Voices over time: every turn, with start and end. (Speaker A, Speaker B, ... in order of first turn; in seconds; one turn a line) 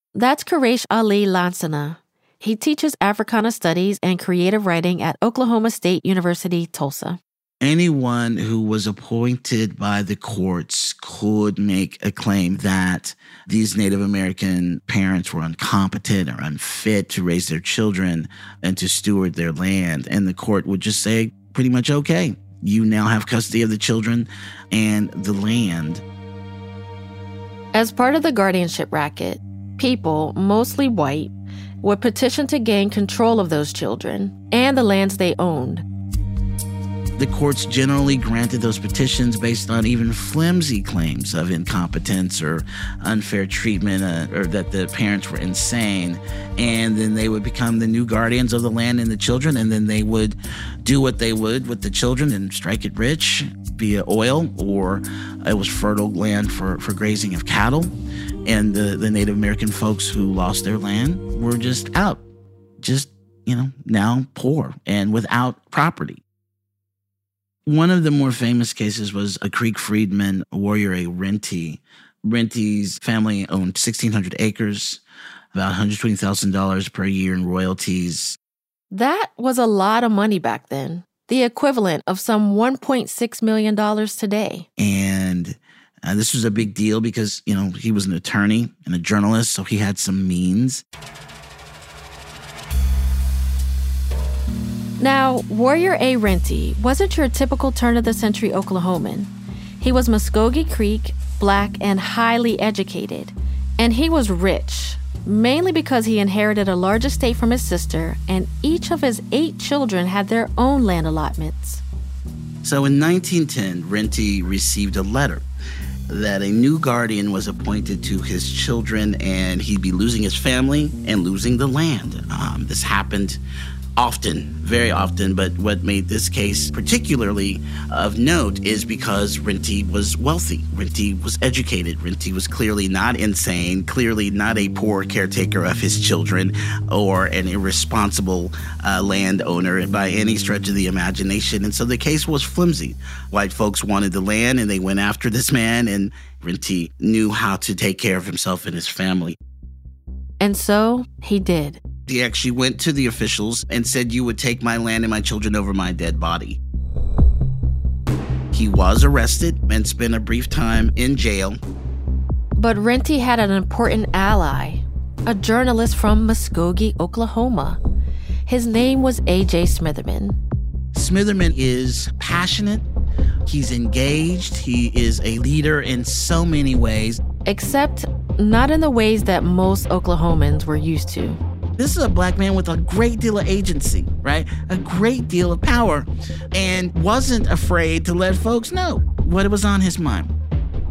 Speaker A: 0.1-7.2
Speaker B: 7.6-26.0
Speaker A: 27.7-35.8
Speaker B: 37.2-57.9
Speaker B: 58.5-62.2
Speaker B: 62.8-66.2
Speaker B: 67.7-75.0
Speaker B: 75.5-78.4
Speaker A: 78.9-84.7
Speaker B: 84.8-90.8
Speaker A: 95.0-111.8
Speaker B: 112.6-115.5
Speaker B: 116.1-123.4
Speaker B: 124.0-149.4
Speaker A: 150.4-151.8
Speaker B: 152.1-156.6
Speaker B: 158.5-161.6
Speaker A: 162.6-167.8
Speaker A: 168.5-170.4
Speaker B: 170.9-172.8
Speaker B: 173.5-177.2
Speaker A: 177.5-181.4
Speaker B: 181.8-190.3